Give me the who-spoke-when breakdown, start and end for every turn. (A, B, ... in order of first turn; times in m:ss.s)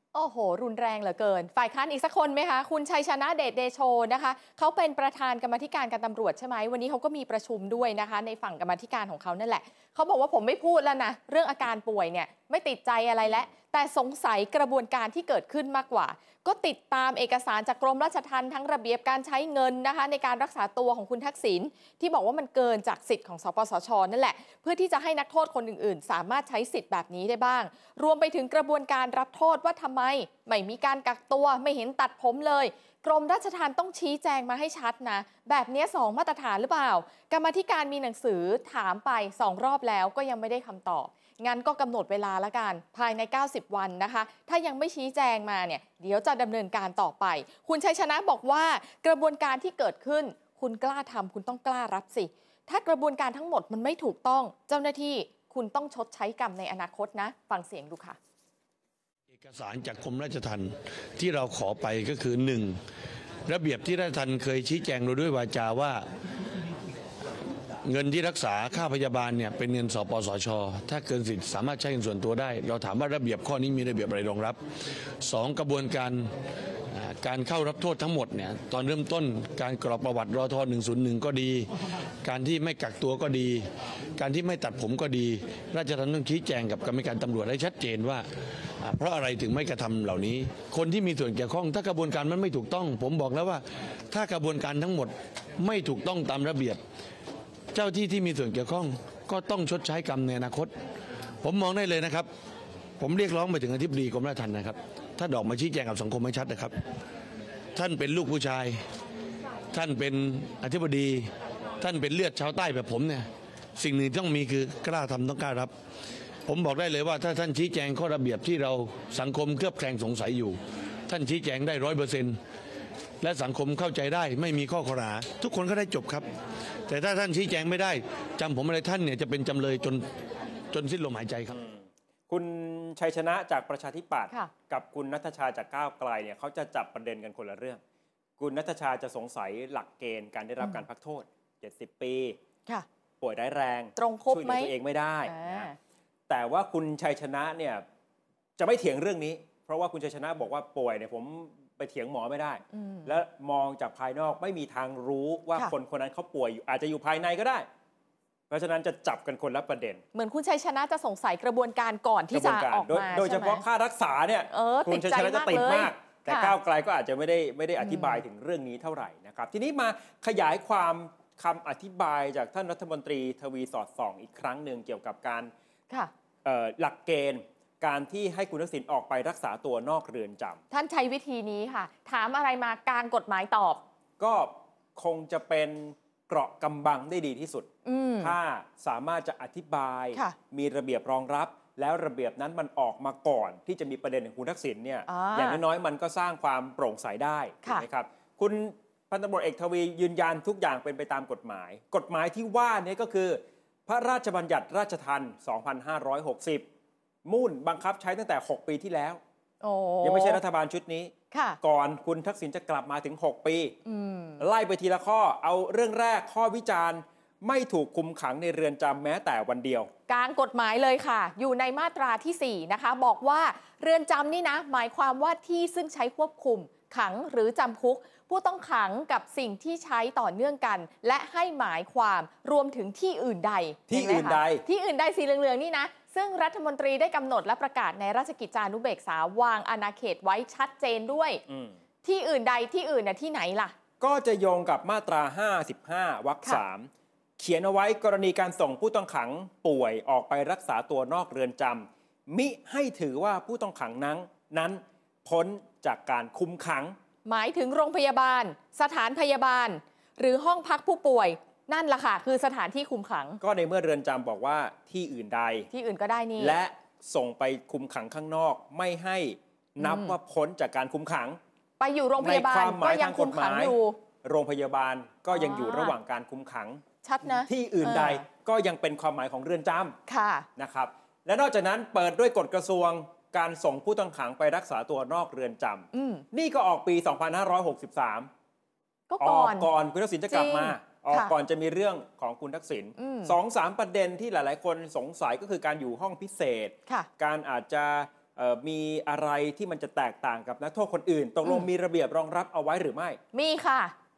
0:00.1-0:58.2 A
0:59.3-1:02.8 B
1:03.5-1:06.1 B
1:07.8-1:14.6 B
1:15.2-1:16.3 B
1:16.9-1:21.7 B
1:22.2-1:23.6 B
1:24.2-1:28.3 B
1:28.8-1:36.8 B
1:37.7-1:40.7 B
1:41.4-1:42.3 B
1:43.0-1:46.7 B
1:47.7-1:48.8 B
1:49.7-1:53.2 B
1:53.8-1:55.7 B
1:56.4-2:02.4 B
2:03.2-2:06.2 B
2:06.9-2:10.0 B
2:10.7-2:11.6 B
2:11.5-2:17.8 C
2:18.4-2:22.4 C
2:23.2-2:25.7 C
2:24.0-2:24.7 A
2:25.2-2:25.8 A
2:26.3-2:27.8 C
2:28.6-2:37.6 C
2:32.7-2:33.1 A
2:38.5-2:40.0 C
2:40.1-2:43.6 A
2:42.3-2:55.5 C
2:44.5-2:46.6 A
2:47.8-2:48.2 A
2:56.4-3:00.6 C
3:00.7-3:03.8 A
3:04.2-3:26.7 C
3:07.8-3:08.3 A
3:15.1-3:15.6 A
3:27.2-3:29.2 C
3:29.6-3:30.4 A
3:30.0-3:33.8 C
3:31.3-3:31.6 A
3:33.8-3:34.4 A
3:34.4-3:39.9 C
3:40.1-4:01.4 A
3:53.9-3:54.6 C
4:01.5-4:01.8 C
4:02.0-4:03.7 A
4:04.0-4:17.0 C
4:17.2-4:23.4 A
4:23.4-4:25.7 C
4:25.7-4:26.6 A
4:26.4-4:31.4 C
4:29.8-4:30.2 A
4:31.8-4:34.0 A
4:32.2-4:40.0 C
4:35.3-4:35.9 A
4:37.0-4:38.2 A
4:40.1-4:40.5 A
4:40.6-4:48.3 C
4:45.9-4:46.2 A
4:49.1-4:49.7 A
4:49.2-5:03.2 C
4:50.3-4:51.3 A
4:53.0-4:53.3 A
5:03.3-5:03.9 A